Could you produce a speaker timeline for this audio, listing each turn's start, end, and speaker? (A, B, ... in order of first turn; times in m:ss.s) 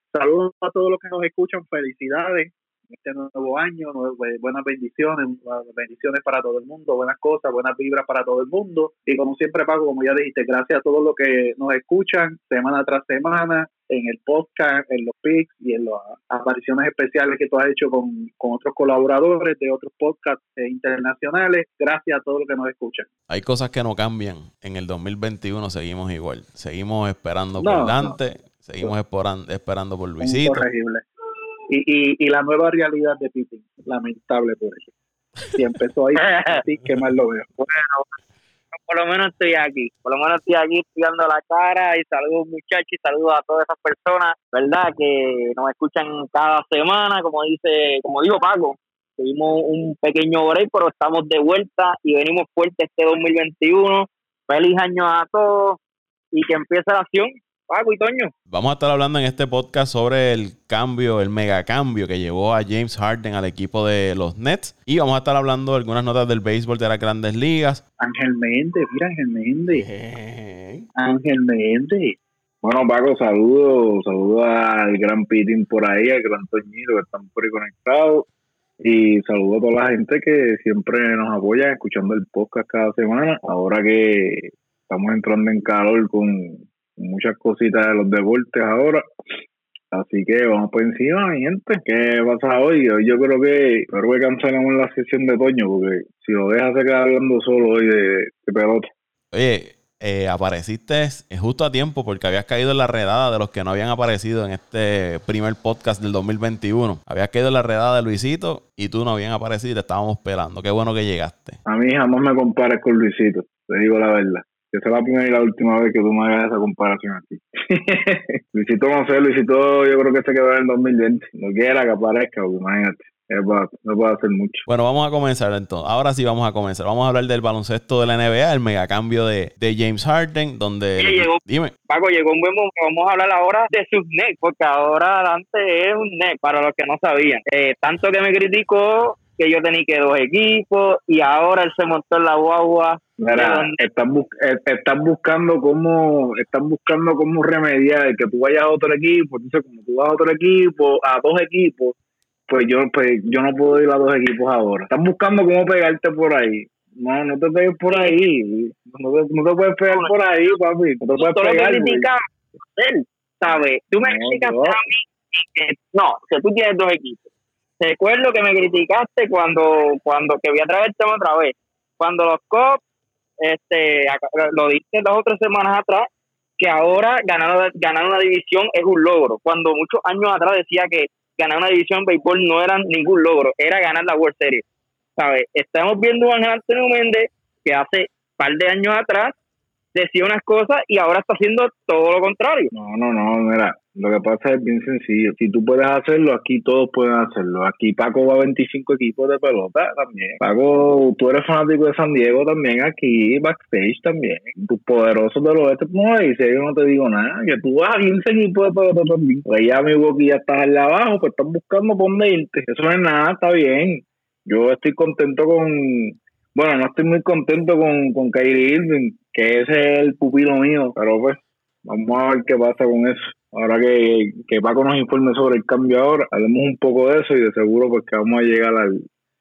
0:00.1-0:23.1 A
0:23.3-0:30.6 B
0:27.6-0:28.2 A
0:30.2-0:31.0 A
0:31.7-0:34.9 A
0:35.5-0:37.4 A
0:37.6-0:38.1 C
0:38.7-0:55.8 C
0:56.3-0:58.3 C
0:58.5-1:07.8 B
1:08.0-1:09.8 A
1:09.7-1:10.9 B
1:11.0-1:12.2 A
1:12.6-1:18.2 D
1:18.8-1:29.1 D
1:29.9-1:38.9 D
1:39.3-1:51.6 B
1:51.6-2:04.6 D
2:04.7-2:11.7 B
2:11.0-2:23.8 C
2:23.2-2:31.9 D
2:32.5-2:42.1 D
2:37.9-2:38.2 C
2:41.2-2:42.2 C
2:42.7-2:47.3 C
2:44.0-2:44.8 D
2:47.8-2:52.8 C
2:53.4-2:56.0 C
2:56.6-3:04.6 C
3:05.2-3:09.3 C
3:09.9-3:12.7 C
3:12.7-3:49.0 D